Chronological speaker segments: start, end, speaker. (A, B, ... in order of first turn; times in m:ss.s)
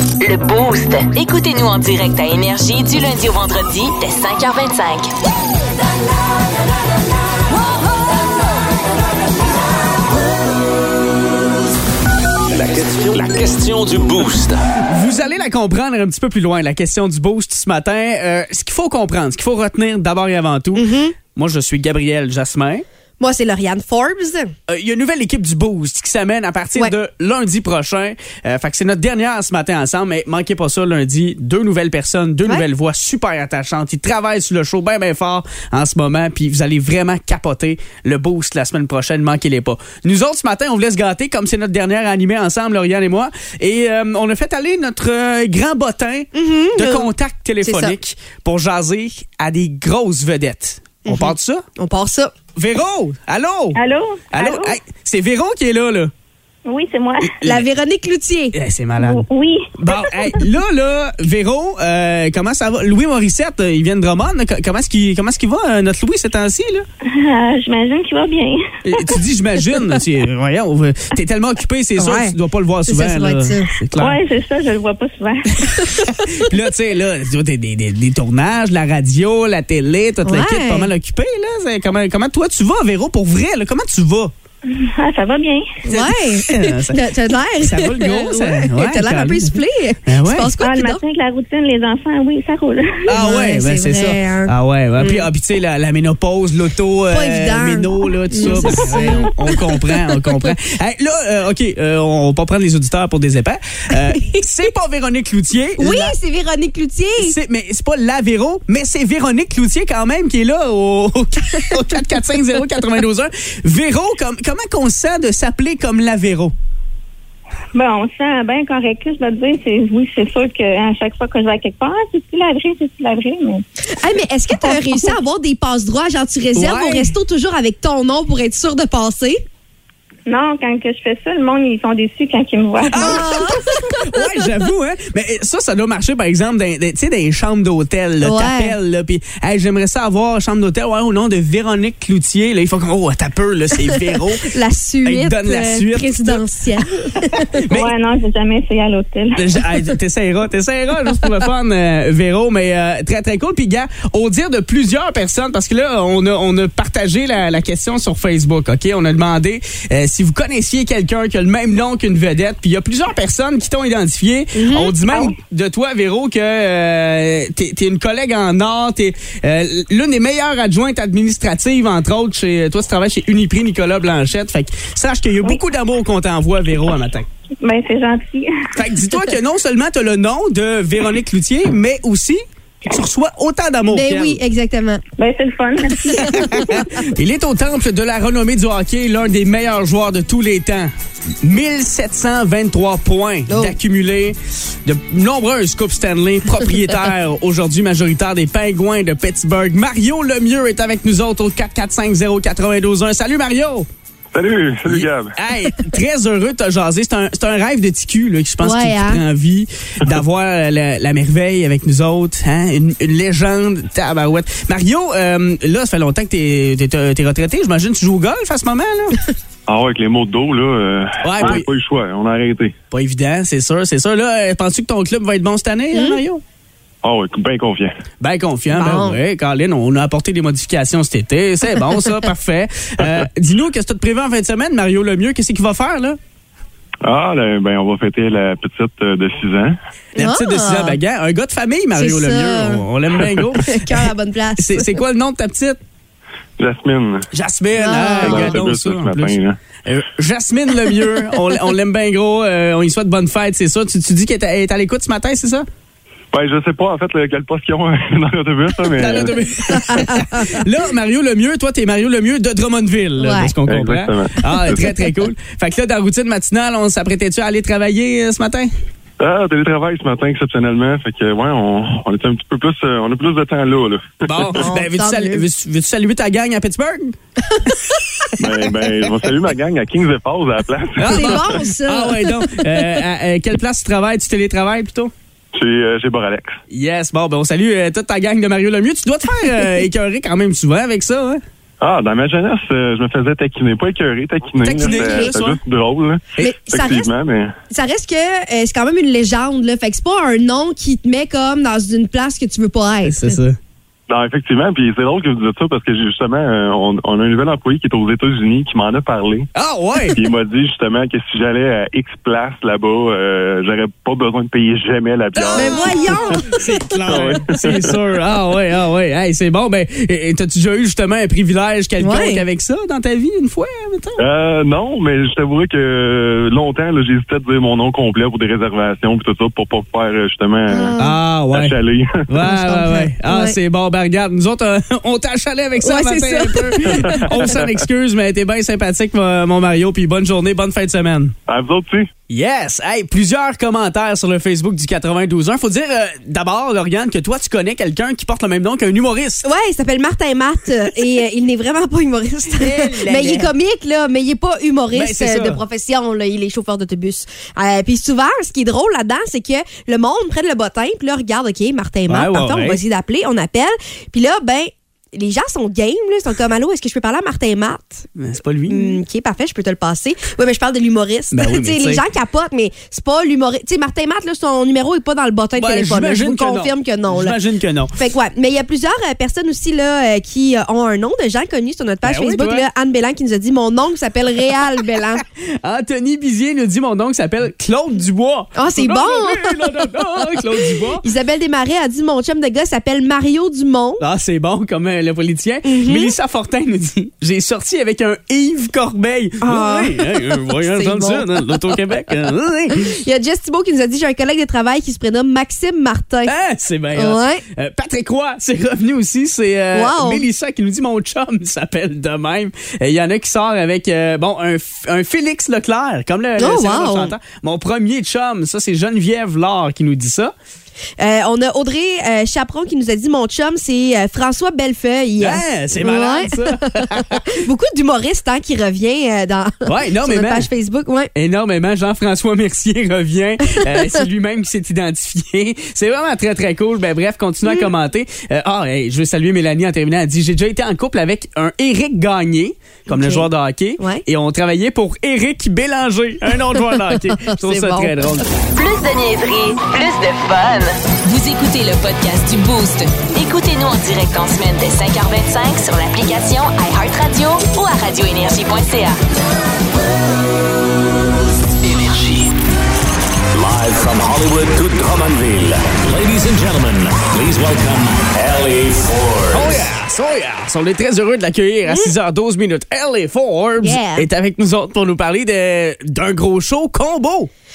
0:00.2-0:05.1 A
0:12.5-0:14.6 B
0:14.8-0:22.8 C
0:20.8-0:21.2 D
0:23.2-0:24.6 D
0:24.7-0:51.6 C
0:46.3-0:47.1 D
0:47.6-0:48.0 D
0:51.0-0:52.3 D
0:52.6-0:53.8 C
0:53.8-0:54.8 E
0:54.3-0:56.1 C
0:56.6-0:57.4 E
0:57.2-0:57.6 C
0:57.4-0:58.6 D
0:58.5-0:59.2 C
0:59.0-1:00.4 E
0:59.8-1:06.8 C
1:07.0-1:09.2 E
1:08.8-1:14.2 C
1:12.0-1:12.4 D
1:12.9-1:13.7 D
1:14.0-1:16.0 E
1:15.7-1:24.3 C
1:15.8-1:16.3 D
1:20.2-1:20.9 D
1:24.6-1:25.8 E
1:25.8-1:31.0 D
1:25.9-1:30.5 C
1:30.6-1:33.1 E
1:33.1-1:46.2 C
1:33.1-1:35.3 D
1:37.1-1:40.2 D
1:44.1-1:44.4 D
1:45.8-1:47.4 D
1:47.2-1:56.5 C
1:57.7-2:03.6 E
2:03.9-2:09.4 D
2:04.6-2:05.2 E
2:06.6-2:07.2 C
2:10.3-2:13.6 E
2:12.9-2:24.5 C
2:12.9-2:14.2 D
2:18.2-2:18.8 D
2:23.9-2:27.6 D
2:25.0-2:27.9 C
2:27.7-2:29.6 E
2:29.4-2:57.3 C
2:44.5-2:45.0 D
2:57.6-2:58.7 E
2:58.7-3:04.4 C
3:03.9-3:05.0 D
3:05.2-3:06.9 E
3:06.4-3:23.9 C
3:13.5-3:13.8 D
3:24.3-3:25.3 F
3:24.8-3:39.2 C
3:28.6-3:29.2 D
3:39.7-3:42.8 F
3:41.2-3:41.7 C
3:42.9-3:46.4 C
3:45.9-3:46.2 D
3:47.0-3:48.0 F
3:48.2-3:56.2 C
3:48.7-3:49.2 D
3:57.0-3:59.8 F
4:00.2-4:01.0 D
4:00.2-4:05.8 C
4:01.9-4:02.9 D
4:03.5-4:05.0 D
4:06.6-4:07.3 F
4:07.3-4:15.7 C
4:07.8-4:08.6 D
4:08.2-4:09.6 F
4:16.3-4:20.0 F
4:18.9-4:28.7 C
4:19.7-4:20.6 D
4:23.2-4:23.6 D
4:23.7-4:24.9 F
4:24.5-4:25.0 D
4:29.2-4:34.6 F
4:34.2-4:37.2 C
4:34.6-4:35.5 D
4:37.7-4:39.1 C
4:38.4-4:41.5 F
4:41.0-4:45.1 C
4:41.1-4:43.0 D
4:45.5-4:46.6 F
4:46.7-4:51.4 C
4:49.5-4:49.8 D
4:51.8-4:57.5 F
4:54.6-4:55.6 C
4:54.8-4:55.3 D
4:56.4-4:57.1 D
4:57.7-5:03.4 D
5:03.0-5:03.6 C
5:04.1-5:09.5 F
5:09.5-5:10.2 C
5:10.1-5:18.0 F
5:15.4-5:24.2 C
5:15.5-5:17.3 D
5:22.0-5:22.4 D
5:24.2-5:31.0 F
5:30.7-5:31.2 D
5:31.0-5:31.8 C
5:31.5-5:32.3 F
5:32.3-5:41.4 C
5:32.4-5:33.6 D
5:35.8-5:37.5 D
5:36.9-5:37.8 F
5:41.5-5:42.1 F
5:42.3-5:49.5 C
5:49.4-6:08.1 D
5:52.5-5:53.5 C
5:54.9-5:55.6 C
6:02.1-6:02.8 C
6:08.2-6:09.0 C
6:08.7-6:17.4 D
6:11.3-6:12.0 C
6:15.6-6:18.0 C
6:17.9-6:25.2 D
6:22.0-6:22.7 C
6:25.4-6:31.0 C
6:28.6-6:30.4 D
6:31.0-6:34.0 D
6:34.0-6:43.0 C
6:35.6-6:36.1 D
6:39.4-6:41.8 D
6:42.7-6:46.3 D
6:46.3-7:00.3 C
6:47.0-6:47.4 D
6:49.7-6:50.2 D
6:56.4-6:57.2 D
7:01.0-7:11.1 D
7:05.2-7:07.4 C
7:09.6-7:10.5 C
7:11.2-7:28.3 C
7:13.5-7:14.0 D
7:22.9-7:23.3 D
7:23.8-7:24.0 D
7:26.6-7:28.1 D
7:28.5-7:39.0 A
7:41.6-7:42.3 B
7:43.3-7:49.6 B
7:49.3-7:57.3 C
7:51.7-7:51.9 D
7:53.6-7:54.1 D